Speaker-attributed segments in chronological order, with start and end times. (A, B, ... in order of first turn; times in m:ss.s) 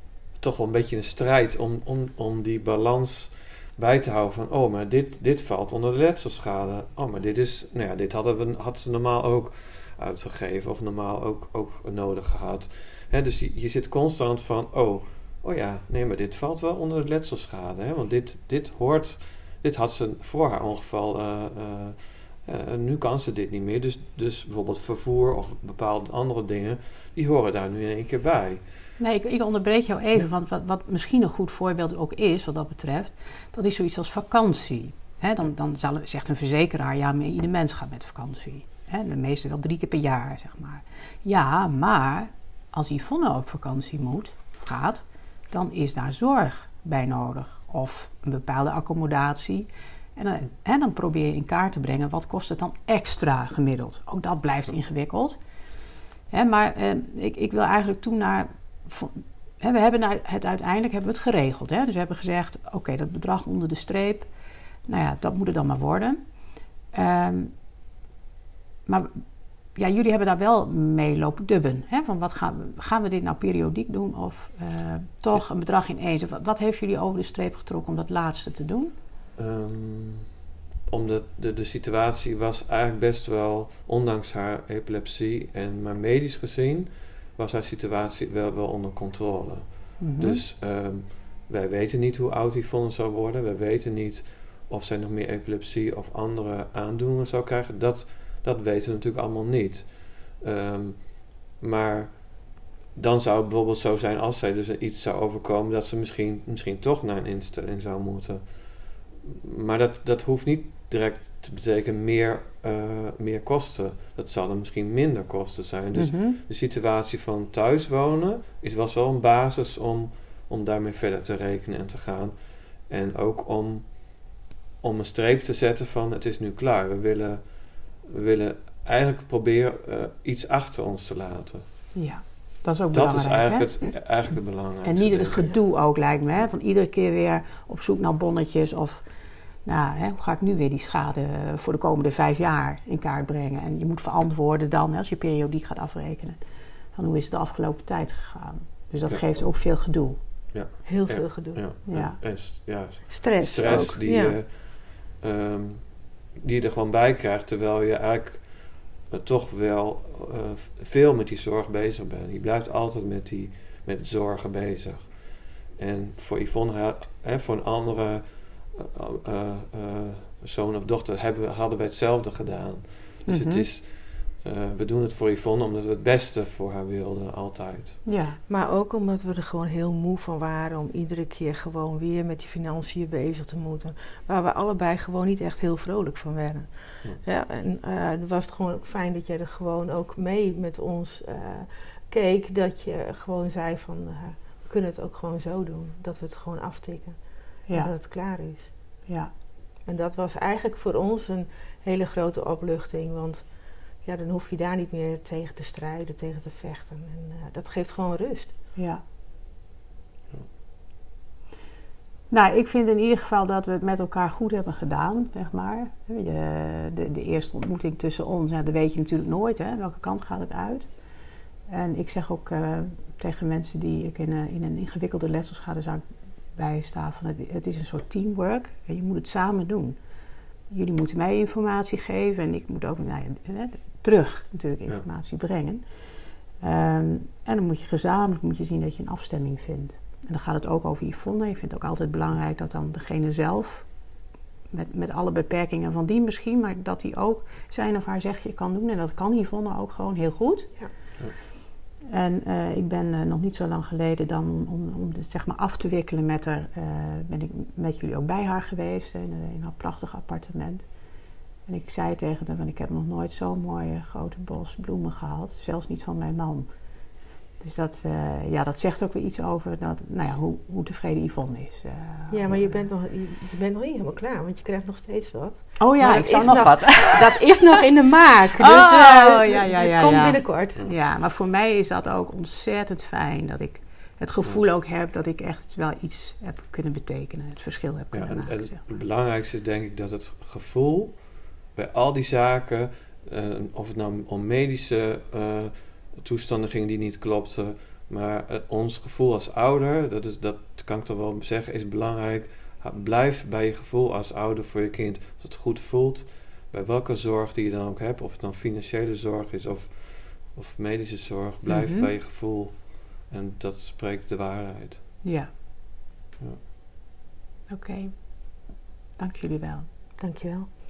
0:00.4-0:28.6 A
0:29.0-0:55.4 B
0:56.3-1:04.3 B
1:04.9-1:06.2 B
1:06.9-1:07.5 B
1:08.8-1:09.2 B
1:09.7-1:18.9 B
1:19.4-1:20.3 A
1:20.9-2:11.6 A
1:30.0-1:30.4 B
1:55.9-1:56.4 B
2:11.9-2:13.9 B
2:12.9-2:15.5 A
2:14.8-2:19.0 B
2:19.6-2:26.4 B
2:26.9-2:30.2 B
2:30.5-2:58.0 A
2:30.8-2:31.6 C
2:31.9-2:32.2 B
2:33.1-2:34.4 C
2:33.7-2:34.0 B
2:53.3-2:53.6 B
2:58.0-2:58.4 B
2:58.5-3:18.7 C
3:17.7-3:17.9 B
3:19.8-3:23.4 C
3:24.0-3:28.5 C
3:28.8-3:29.0 B
3:32.3-3:40.9 B
3:41.7-3:50.0 B
3:50.7-3:55.9 B
3:56.6-4:03.9 B
4:04.7-4:10.8 B
4:12.0-4:20.9 B
4:21.6-4:26.7 B
4:27.6-4:32.9 B
4:32.3-4:40.8 C
4:35.8-4:37.5 B
4:38.6-4:48.8 B
4:48.1-5:15.0 A
5:11.7-5:12.1 B
5:15.2-5:15.5 B
5:17.7-5:18.6 B
5:19.2-5:19.9 B
5:20.2-5:20.7 C